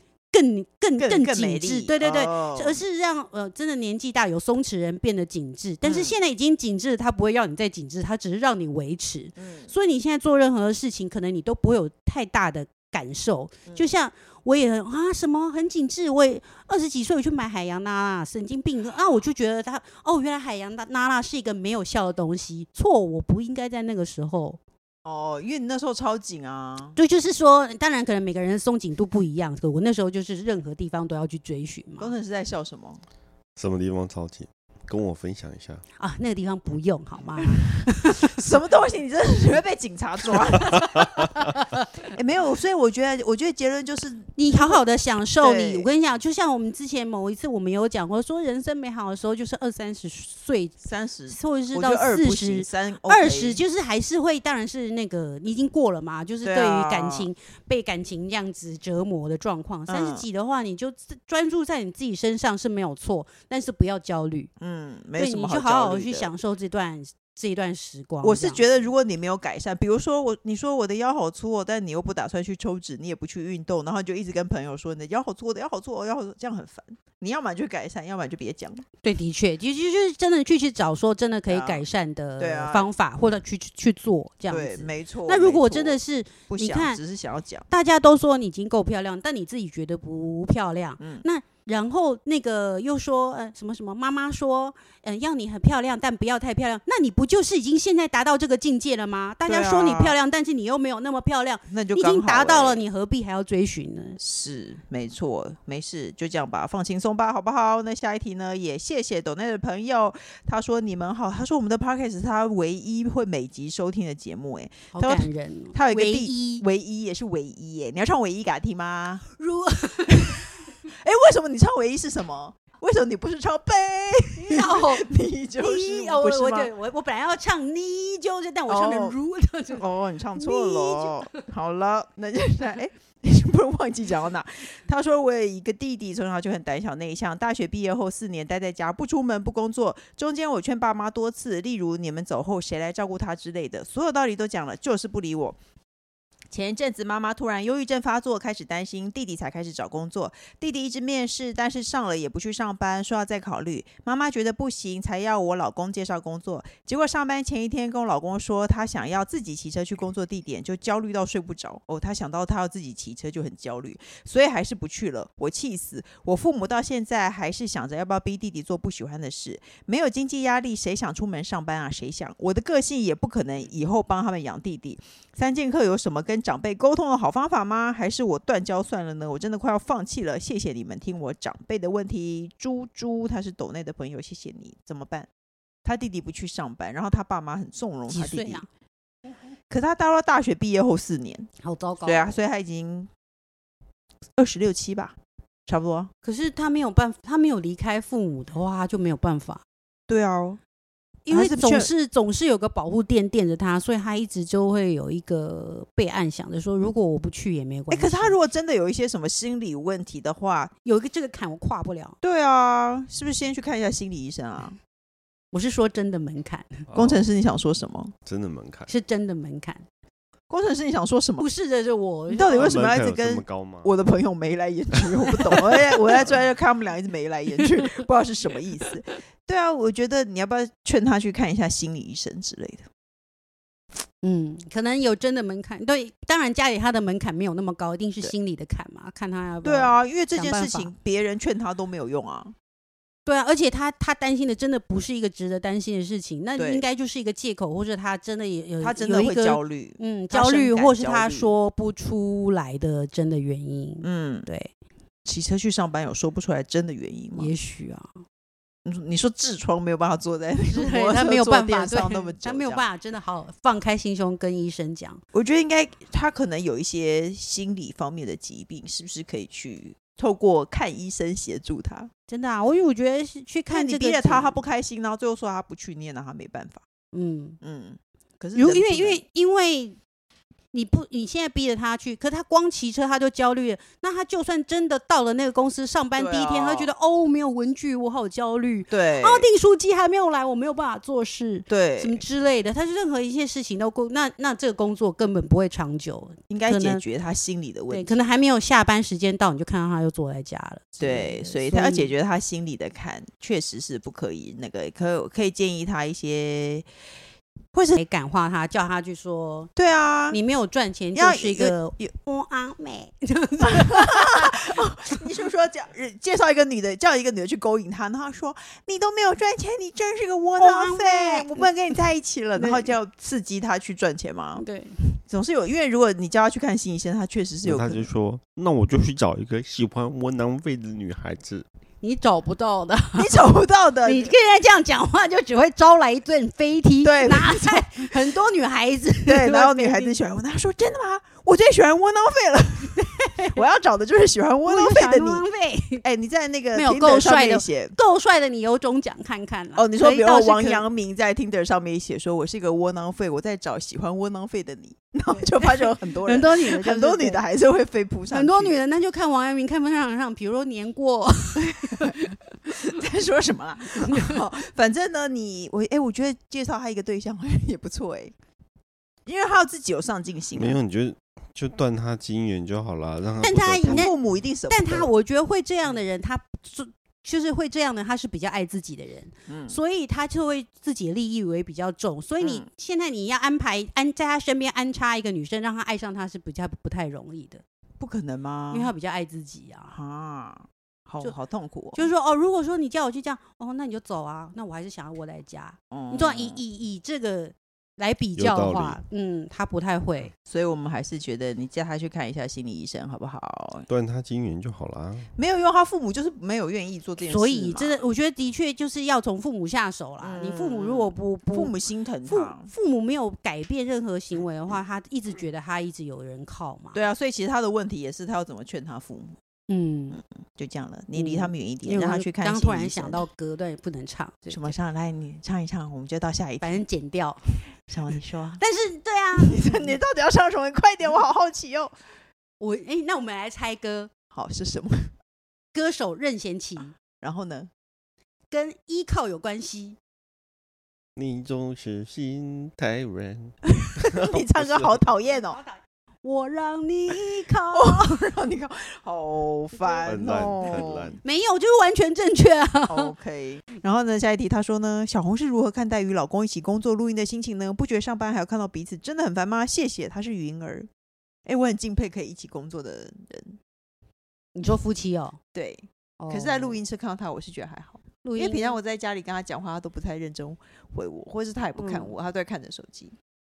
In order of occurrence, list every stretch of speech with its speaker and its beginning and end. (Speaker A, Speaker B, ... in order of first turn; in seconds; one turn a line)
Speaker A: 0.3-24.6
Speaker B: 1.0-2.8
Speaker B: 5.8-6.1
Speaker B: 9.4-9.7
Speaker B: 25.0-27.0
Speaker A: 26.9-32.1
Speaker B: 32.0-33.0
Speaker C: 33.5-35.8
Speaker A: 36.0-38.4
Speaker B: 38.3-41.2
Speaker A: 40.7-41.8
Speaker B: 42.0-44.8
Speaker A: 44.3-50.8
Speaker B: 45.4-45.9
Speaker B: 50.8-53.6
Speaker A: 51.3-64.5
Speaker B: 56.4-57.3
Speaker B: 59.9-60.2
Speaker B: 64.6-66.3
Speaker A: 65.2-68.7
Speaker B: 68.2-78.8
Speaker A: 79.0-87.0
Speaker B: 81.5-81.8
Speaker B: 82.4-82.9
Speaker B: 84.5-87.7
Speaker A: 87.7-104.2
Speaker B: 91.0-91.2
Speaker B: 99.5-100.1
Speaker B: 101.7-102.8
Speaker B: 104.2-119.2
Speaker A: 114.9-116.6
Speaker A: 119.4-120.5
Speaker B: 120.9-126.7
Speaker A: 124.4-131.4
Speaker B: 128.7-145.6
Speaker B: 146.5-185.3
Speaker B: 185.8-188.6
Speaker A: 188.1-188.7
Speaker B: 189.7-191.5
Speaker A: 191.6-192.3
Speaker B: 192.0-193.1
Speaker B: 194.4-195.2
Speaker B: 195.7-196.1
Speaker A: 196.2-199.6
Speaker B: 200.1-200.6
Speaker A: 201.2-208.3
Speaker B: 201.3-201.9
Speaker B: 207.9-210.7
Speaker A: 210.8-212.2
Speaker B: 212.2-214.8
Speaker A: 215.5-216.9
Speaker C: 216.9-217.2
Speaker B: 216.9-218.1
Speaker C: 218.2-218.9
Speaker A: 218.9-219.8
Speaker B: 220.5-221.5
Speaker A: 221.4-222.9
Speaker B: 222.3-232.8
Speaker C: 222.5-223.9
Speaker A: 234.2-240.9
Speaker B: 239.6-242.5
Speaker A: 243.2-254.7
Speaker B: 246.6-246.8
Speaker B: 248.8-251.5
Speaker B: 254.0-254.5
Speaker B: 255.2-257.5
Speaker A: 257.3-258.1
Speaker B: 258.8-262.8
Speaker A: 260.7-265.2
Speaker B: 265.3-272.1
Speaker A: 272.3-274.6
Speaker B: 273.7-276.8
Speaker A: 277.1-277.6
Speaker B: 277.6-279.2
Speaker A: 278.5-280.0
Speaker A: 280.7-297.0
Speaker B: 286.1-286.9
Speaker B: 288.9-289.4
Speaker B: 291.7-292.2
Speaker B: 296.5-298.1
Speaker A: 297.9-302.1
Speaker B: 301.0-306.9
Speaker A: 307.9-309.7
Speaker B: 309.8-310.4
Speaker A: 310.3-314.6
Speaker B: 311.1-312.1
Speaker B: 313.6-324.6
Speaker A: 320.6-321.6
Speaker A: 322.6-322.9
Speaker A: 324.6-325.2
Speaker B: 325.3-328.1
Speaker C: 327.6-331.6
Speaker A: 332.0-333.5
Speaker B: 333.2-334.3
Speaker A: 334.0-340.2
Speaker B: 337.0-338.1
Speaker B: 339.2-345.4
Speaker A: 342.9-343.6
Speaker A: 344.6-346.0
Speaker B: 346.0-347.9
Speaker A: 346.7-350.8
Speaker B: 349.8-358.8
Speaker A: 355.3-357.4
Speaker A: 358.3-362.4
Speaker B: 362.7-368.3
Speaker A: 364.1-364.4
Speaker B: 369.2-370.8
Speaker C: 370.5-374.1
Speaker A: 373.4-374.2
Speaker B: 373.8-375.1
Speaker A: 374.7-387.6
Speaker B: 379.5-379.8
Speaker B: 382.4-382.7
Speaker B: 388.0-388.9
Speaker A: 388.7-389.9
Speaker B: 389.9-392.1
Speaker A: 391.9-400.3
Speaker B: 395.9-396.6
Speaker C: 398.4-399.0
Speaker B: 400.4-403.9
Speaker C: 403.9-405.3
Speaker B: 405.4-408.0
Speaker A: 407.2-411.7
Speaker B: 410.2-412.7
Speaker A: 412.2-417.0
Speaker B: 416.9-419.4
Speaker A: 419.7-420.2
Speaker B: 420.6-423.2
Speaker A: 421.1-424.7
Speaker B: 424.4-426.8
Speaker A: 426.6-427.7
Speaker B: 427.8-428.6
Speaker A: 428.6-429.9
Speaker B: 429.4-431.9
Speaker A: 432.6-434.1
Speaker B: 434.3-435.1
Speaker A: 435.7-436.9
Speaker B: 437.2-437.7
Speaker A: 438.5-440.0
Speaker C: 441.1-444.9
Speaker B: 444.0-445.6
Speaker A: 445.4-448.3
Speaker B: 447.7-451.1
Speaker A: 449.7-453.1
Speaker C: 450.1-451.2
Speaker B: 452.9-460.9
Speaker B: 461.4-463.6
Speaker A: 464.5-465.4
Speaker B: 465.5-473.1
Speaker A: 466.2-466.8
Speaker A: 468.2-468.8
Speaker A: 471.8-472.1